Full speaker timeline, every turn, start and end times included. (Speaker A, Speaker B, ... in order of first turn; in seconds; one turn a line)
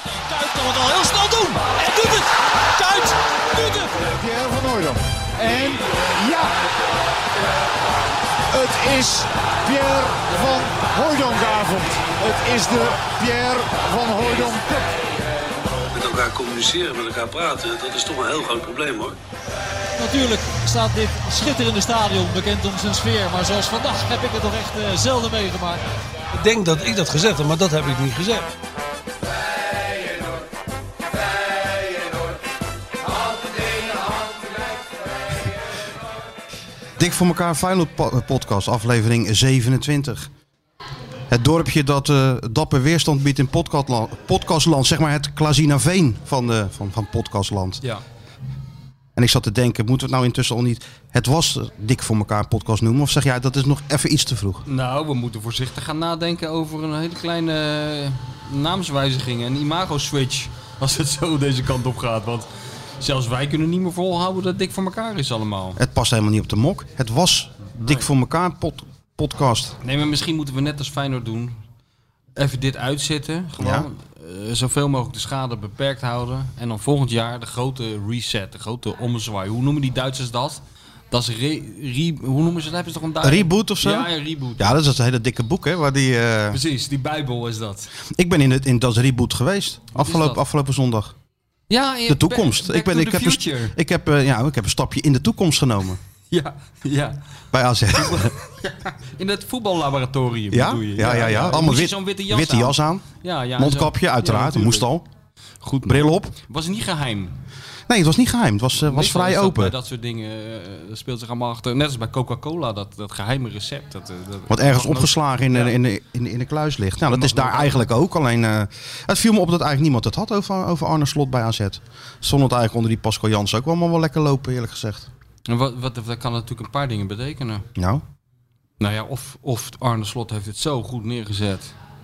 Speaker A: 0.1-3.9
Speaker B: 4.0-6.5
Speaker B: 8.5-14.9
Speaker C: 15.9-19.2
Speaker A: 20.0-25.8
Speaker C: 26.3-28.5
Speaker D: 37.0-40.3
Speaker D: 41.3-47.8
Speaker D: 49.1-54.6
Speaker E: 54.6-62.5
Speaker E: 63.0-65.8
Speaker D: 65.8-69.8
Speaker E: 69.8-71.6
Speaker E: 72.3-84.8
Speaker D: 73.6-73.9
Speaker D: 83.2-86.6
Speaker E: 86.5-87.9
Speaker D: 88.1-91.1
Speaker E: 90.0-90.4
Speaker E: 91.7-93.8
Speaker D: 92.1-96.0
Speaker E: 96.3-97.2
Speaker D: 97.5-98.3
Speaker E: 97.9-104.9
Speaker D: 100.5-105.0
Speaker E: 105.6-107.4
Speaker D: 105.8-106.3
Speaker D: 107.9-109.7
Speaker E: 108.8-115.7
Speaker D: 114.5-125.1
Speaker E: 117.1-117.8
Speaker E: 125.5-127.7
Speaker D: 127.8-128.0
Speaker E: 128.8-131.7